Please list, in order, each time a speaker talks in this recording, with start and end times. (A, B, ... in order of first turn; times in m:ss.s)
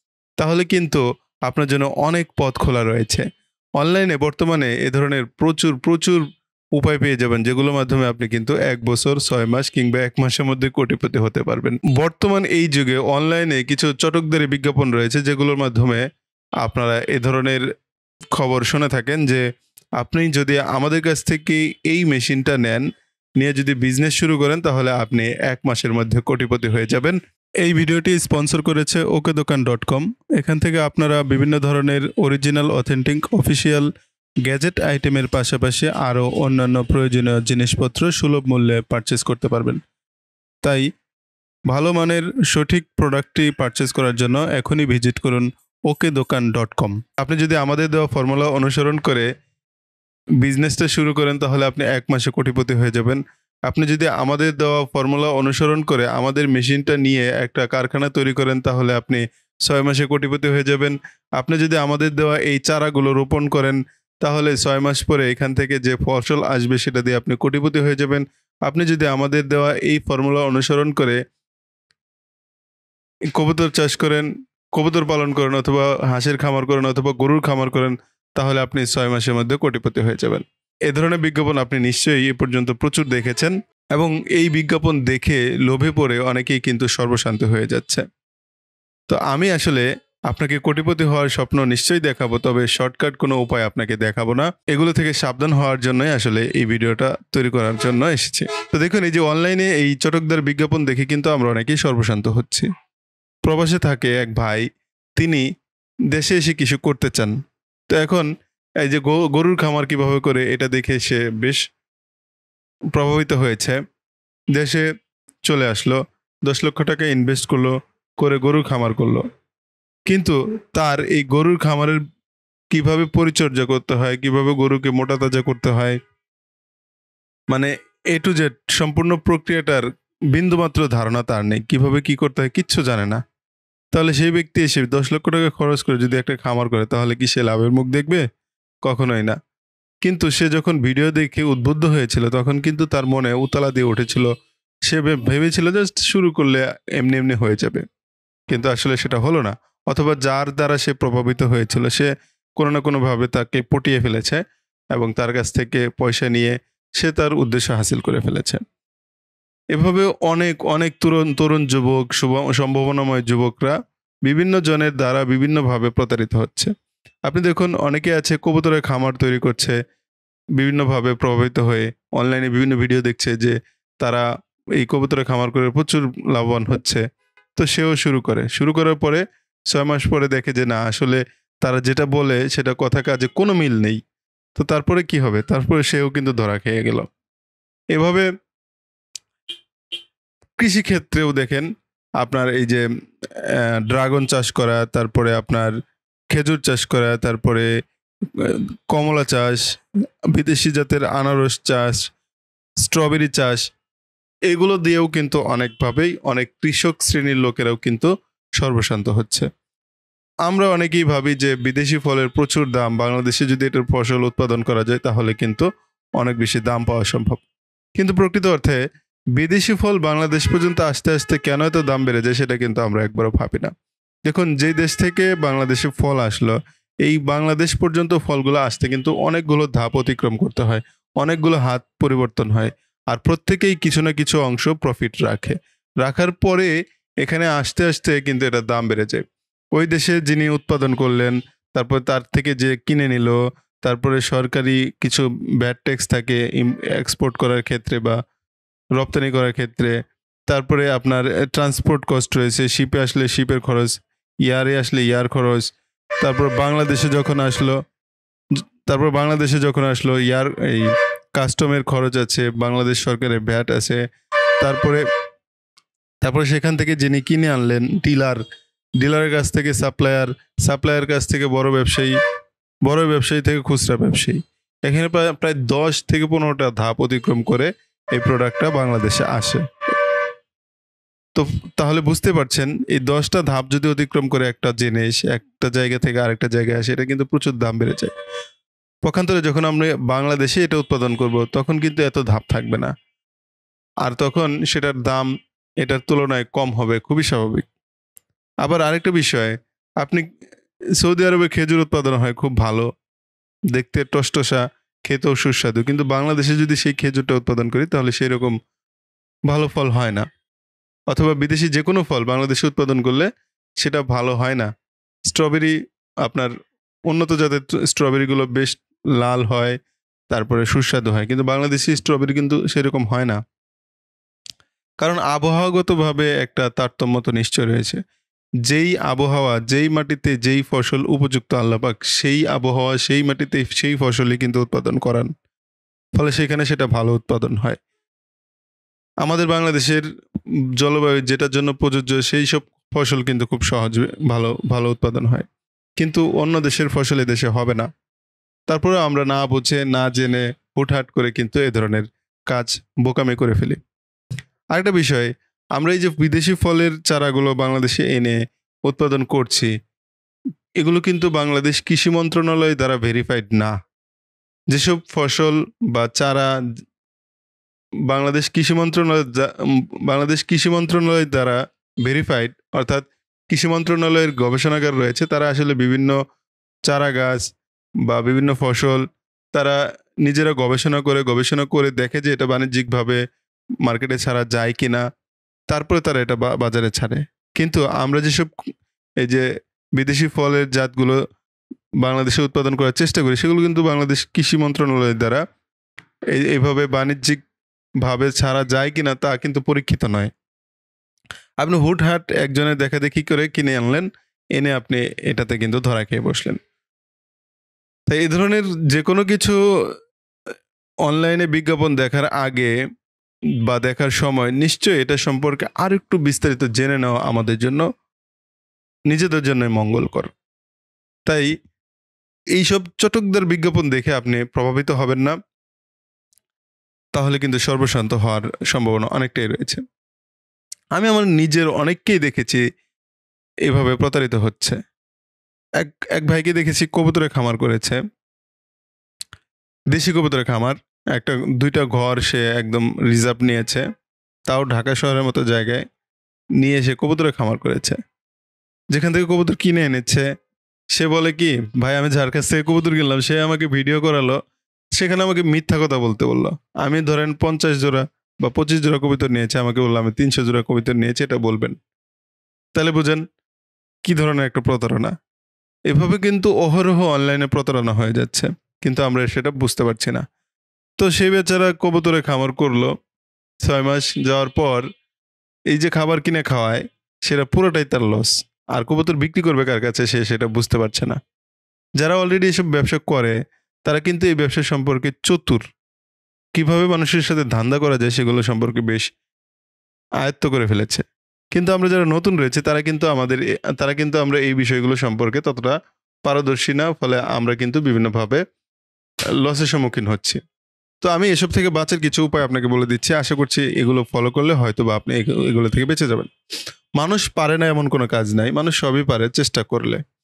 0:00.4-0:03.2 A
0:03.8-0:06.2 A
0:06.8-0:16.0 A
0:16.6-0:17.6 A
0:18.3-0:19.4 A
0:20.0-0:22.8 A
0:23.4-0:33.9 A
0:34.4-0:39.8 A
0:41.7-0:49.3 A
0:50.4-1:11.2 A
1:13.3-1:28.0 A
1:29.1-1:42.7 A
1:43.4-1:45.4 A
1:46.1-1:47.3 A
1:47.9-1:48.3 A
1:48.8-1:51.6 A
1:52.9-1:53.8 A
1:54.5-1:54.8 A
1:55.4-1:59.2 A
2:00.1-2:02.0 A
2:02.7-2:06.0 A
2:07.5-2:13.2 A
2:13.9-2:18.2 A
2:18.8-2:19.4 A
2:20.0-2:24.3 A
2:24.9-2:27.8 A
2:28.5-2:34.4 A
2:34.9-2:38.6 A
2:39.7-2:46.7 A
2:47.2-2:49.8 A
2:50.6-2:54.2 A
2:54.8-2:57.0 A
2:57.6-3:04.0 A
3:04.6-3:07.1 A
3:07.9-3:08.2 A
3:10.6-3:11.6 A
3:12.2-3:12.8 A
3:13.4-3:15.7 A
3:16.3-3:17.7 A
3:18.3-3:19.6 A
3:20.3-3:22.0 A
3:22.8-3:23.6 A
3:24.5-3:29.5 A
3:30.4-3:35.7 A
3:36.2-3:37.4 A
3:38.0-3:38.8 A
3:39.4-3:43.7 A
3:44.2-3:59.2 A
3:59.7-4:08.1 A
4:09.0-4:09.9 A
4:10.5-4:15.7 A
4:16.2-4:17.8 A
4:18.9-4:24.0 A
4:24.6-4:25.0 A
4:26.2-4:28.4 A
4:29.0-4:32.2 A
4:32.8-4:40.1 A
4:41.3-4:48.1 A
4:49.0-4:52.9 A
4:54.0-4:55.3 A
4:55.8-4:57.6 A
4:58.6-5:00.2 A
5:01.0-5:02.8 A
5:03.7-5:08.5 A
5:09.5-5:10.2 A
5:11.1-5:13.3 A
5:13.8-5:14.7 A
5:15.3-5:15.7 A
5:16.2-5:16.5 A
5:17.1-5:19.8 A
5:20.3-5:23.4 A
5:25.0-5:28.0 A
5:28.6-5:35.3 A
5:36.2-5:37.8 A
5:39.2-5:40.0 A
5:40.8-5:45.4 A
5:46.0-5:47.8 A
5:48.7-5:53.8 A
5:54.7-5:59.7 A
6:00.8-6:03.7 A
6:04.7-6:06.5 A
6:08.1-6:16.2 A
6:16.8-6:17.4 A
6:18.0-6:23.2 A
6:23.8-6:25.0 A
6:25.7-6:28.5 A
6:30.0-6:31.2 A
6:32.0-6:35.4 A
6:36.4-6:37.4 A
6:38.0-6:40.3 A
6:41.6-6:46.6 A
6:48.1-6:49.5 A
6:51.0-6:52.7 A
6:53.6-6:57.8 A
6:59.1-7:00.3 A
7:01.2-7:01.5 A
7:02.6-7:05.4 A
7:07.1-7:09.8 A
7:10.9-7:12.6 A
7:13.7-7:14.8 A
7:15.8-7:18.0 A
7:19.9-7:23.8 A
7:24.5-7:25.8 A
7:26.6-7:28.0 A
7:28.9-7:30.2 A
7:30.9-7:34.4 A
7:35.0-7:41.7 A
7:42.7-7:43.2 A
7:44.0-7:45.1 A
7:45.9-7:50.2 A
7:51.0-7:52.9 A
7:53.6-7:54.8 A
7:55.7-8:01.2 A
8:02.0-8:03.3 A
8:03.8-8:05.6 A
8:06.5-8:09.1 A
8:10.2-8:15.7 A
8:16.2-8:18.4 A
8:19.4-8:20.4 A
8:21.0-8:26.3 A
8:27.0-8:30.0 A